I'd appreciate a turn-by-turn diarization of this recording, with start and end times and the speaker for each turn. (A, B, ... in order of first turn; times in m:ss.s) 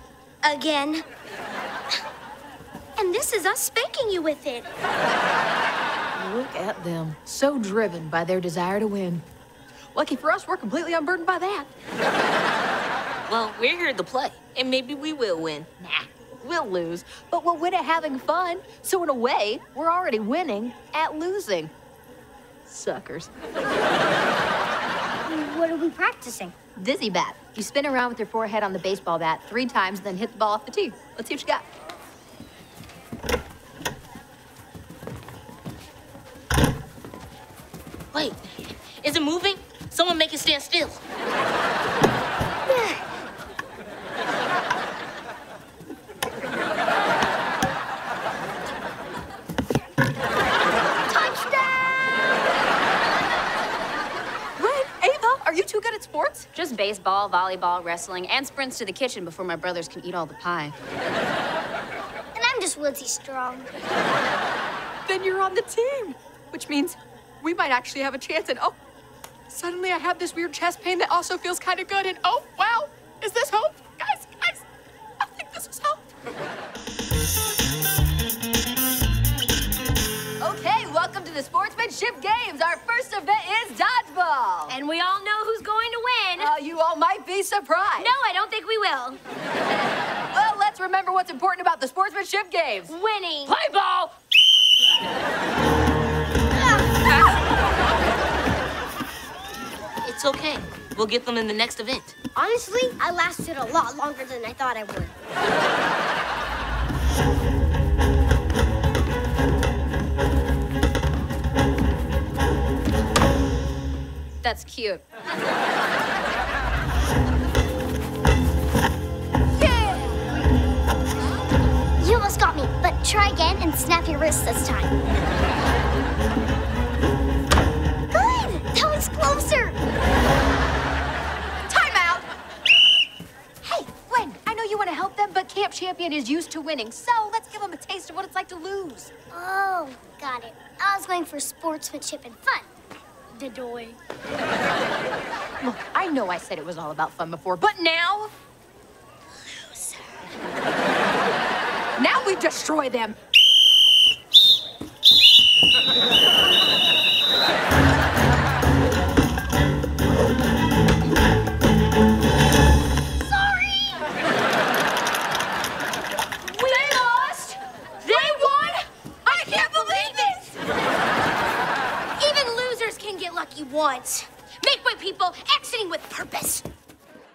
0:00.4-0:01.0 A
0:03.0-0:04.7 A
0:06.2-0:09.2 B
0:09.9-0:11.7 B
0:13.3-0:15.7 C
0:15.8-0:21.7 B
0:22.7-0:23.3 B
0:25.3-0:26.5 A
0:26.8-0:31.6 B
0:38.1-0:41.0 C
0:42.7-0:42.9 A
0:51.1-0:51.7 A
0:54.6-0:56.5 B
0:56.5-1:00.7 D
1:02.4-1:03.7 A
1:05.1-1:08.8 B
1:09.5-1:14.6 B
1:15.2-1:16.1 B
1:20.4-1:24.8 B
1:24.7-1:26.5 A
1:26.4-1:28.1 B
1:28.0-1:29.2 A
1:30.3-1:32.9 B
1:32.9-1:33.5 A
1:33.5-1:34.1 C
1:40.0-1:42.1 C
1:42.4-1:45.1 A
1:54.5-1:55.0 B
1:59.6-2:00.2 B
2:02.0-2:04.9 A
2:08.1-2:09.7 A
2:11.7-2:12.3 B
2:13.6-2:19.1 B
2:19.3-2:22.7 A
2:23.3-2:24.0 A
2:25.6-2:28.3 B
2:29.5-2:30.2 A
2:32.0-2:33.2 B
2:43.3-2:44.1 A
2:46.4-2:47.4 A
2:46.6-2:47.3 B
2:48.0-2:50.5 A
2:49.3-2:50.2 B
2:52.2-2:56.6 A